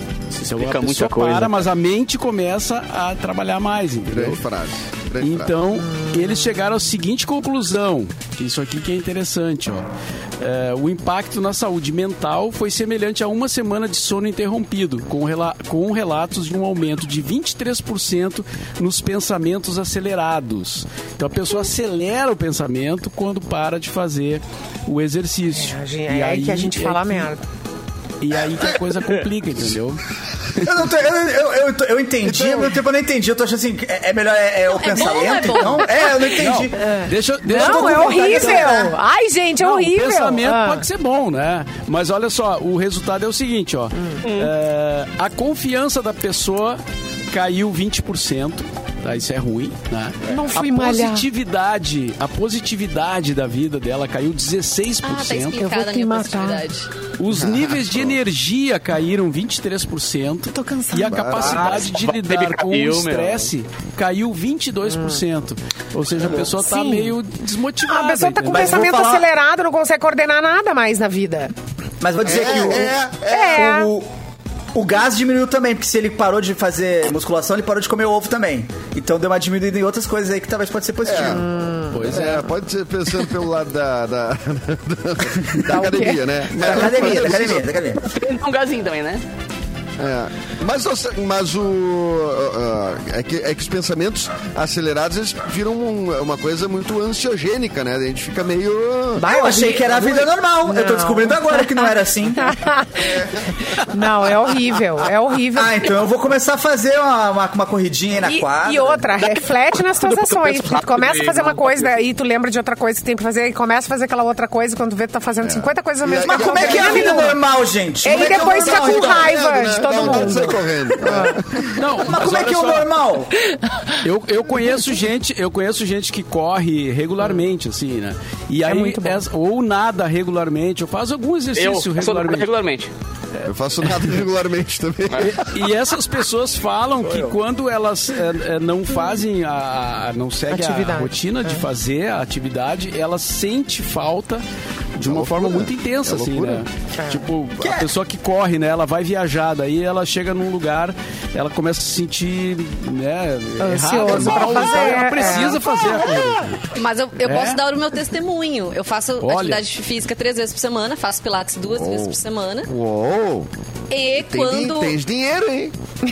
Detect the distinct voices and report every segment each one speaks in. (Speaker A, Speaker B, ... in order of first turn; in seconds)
Speaker A: 0.3-4.4, 5.2-27.3, 28.2-30.0, 36.4-38.7, 39.6-55.6, 57.2-68.8, 81.9-82.4, 121.7-122.9, 124.0-132.5, 135.2-144.4, 144.9-156.6, 157.2-157.6, 159.2-159.6
Speaker B: 0.5-1.6, 44.2-44.5, 61.4-63.5, 88.0-89.2, 109.2-112.0, 131.6-132.9, 137.0-137.3
Speaker C: 4.0-5.5, 32.2-32.8, 57.3-58.1, 61.0-61.9, 72.2-73.6, 81.0-81.5, 82.0-87.7, 90.0-99.3, 103.0-103.5, 115.4-117.3, 118.2-121.8, 133.4-135.7, 145.0-146.6, 161.7-163.5, 164.2-165.7
Speaker D: 5.9-6.5, 25.5-27.4, 36.8-40.9, 50.3-51.2, 55.6-56.6, 60.5-61.7, 64.9-65.2, 66.2-67.2, 67.9-71.5, 73.3-73.9, 81.2-82.5, 85.7-86.2, 99.2-105.9, 108.2-117.4, 118.0-121.4, 123.5-124.0, 128.6-129.2, 140.5-141.6, 147.0-147.3, 153.6-156.3
Speaker E: 30.6-36.8, 37.5-38.9, 68.4-69.3, 72.0-74.1, 74.7-81.5, 86.5-88.0, 99.2-102.6, 105.5-109.1, 116.2-119.4, 121.9-123.3, 147.6-147.9
Speaker F: 34.7-35.9, 55.0-56.9, 156.7-162.7, 163.9-164.9